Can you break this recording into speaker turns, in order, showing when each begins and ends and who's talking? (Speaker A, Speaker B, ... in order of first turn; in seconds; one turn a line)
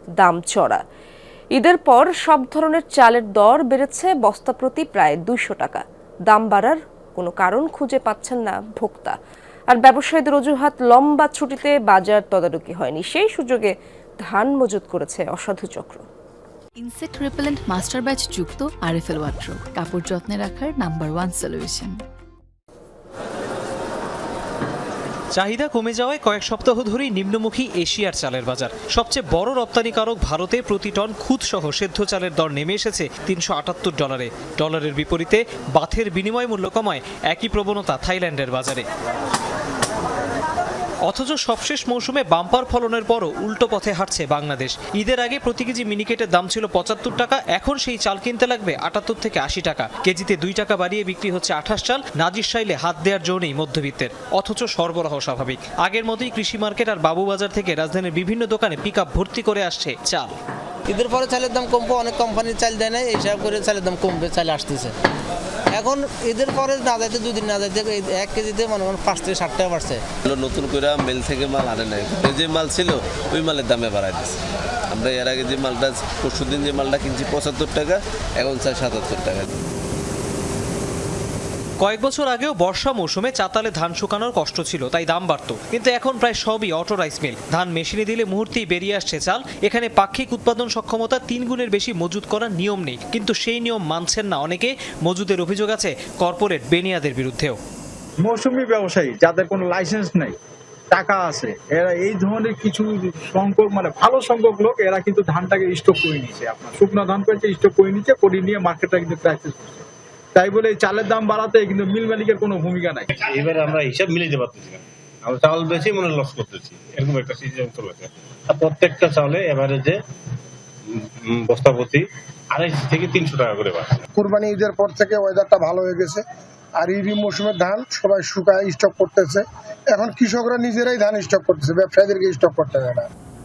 Speaker A: 0.2-0.8
Speaker A: 1.6-9.2
Speaker A: 9.7-16.0
Speaker B: 16.8-22.0
Speaker C: 25.4-38.8
Speaker C: 41.1-60.3
Speaker D: 60.9-64.9
Speaker D: 65.8-70.0
Speaker E: 70.2-79.5
Speaker C: 81.8-97.6
Speaker F: 98.2-100.4
Speaker F: 100.9-109.8
Speaker F: 110.3-113.1
Speaker G: 113.1-120.0
Speaker G: 120.9-124.1
Speaker H: 124.2-126.2
Speaker H: 126.8-133.1